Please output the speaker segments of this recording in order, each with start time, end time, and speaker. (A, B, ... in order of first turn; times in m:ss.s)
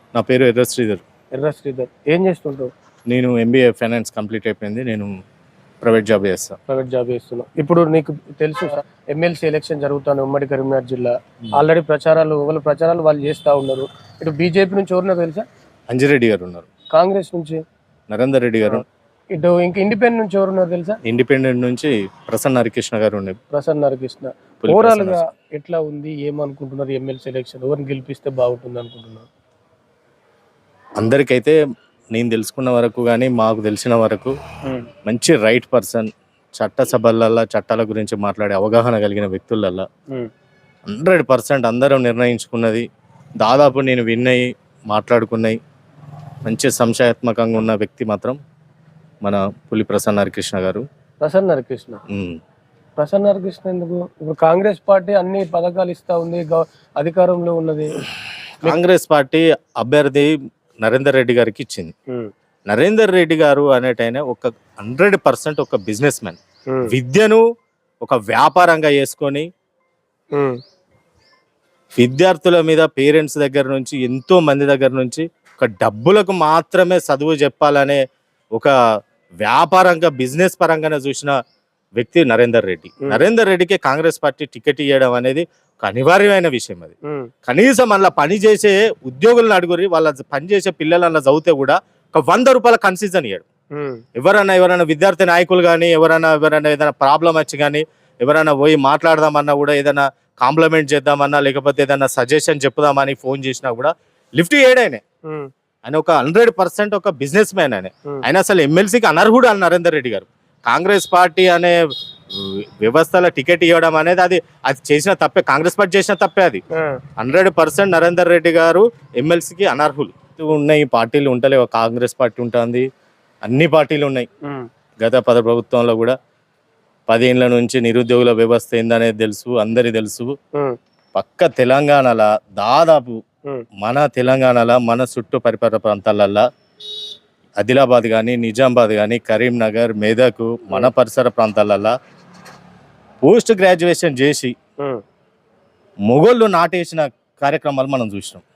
0:00.2-0:01.0 A
0:01.4-0:02.7 B
0:03.1-0:05.1 A
0:05.8-0:06.6 A
0:06.7-0:15.5 B
0:15.9-0:16.7 A
0:16.9-0:17.6 B
0:18.1-0:18.8 A
0:19.3-0:21.0 B
0:21.0-0:23.4 A
0:23.5-0:29.3 B
0:24.6-0:25.2 A
0:31.0-0:31.6 A
0:32.1-0:34.3 A
0:35.1-0:39.9 A
0:40.9-0:42.9 A
0:43.4-0:45.6 A
0:46.5-0:48.4 A
0:49.2-0:50.8 A
0:51.2-0:52.0 B
0:52.1-0:52.4 A
0:53.0-0:58.0 B
0:58.6-1:00.3 A
1:00.8-1:01.9 A
1:02.7-1:07.4 A
1:08.0-1:09.5 A
1:12.0-1:18.0 A
1:19.4-1:21.4 A
1:22.0-1:26.9 A
1:27.5-1:33.5 A
1:33.8-1:34.0 B
1:34.2-1:45.0 A
1:45.8-1:51.8 A
1:52.3-1:56.6 A
1:56.8-1:57.0 B
1:57.2-2:02.9 A
2:03.5-2:04.3 A
2:05.0-2:06.2 A
2:07.1-2:10.3 A
2:11.2-2:13.2 A
2:13.8-2:16.4 A
2:17.6-2:21.9 A
2:23.2-2:24.5 A
2:26.1-2:28.4 A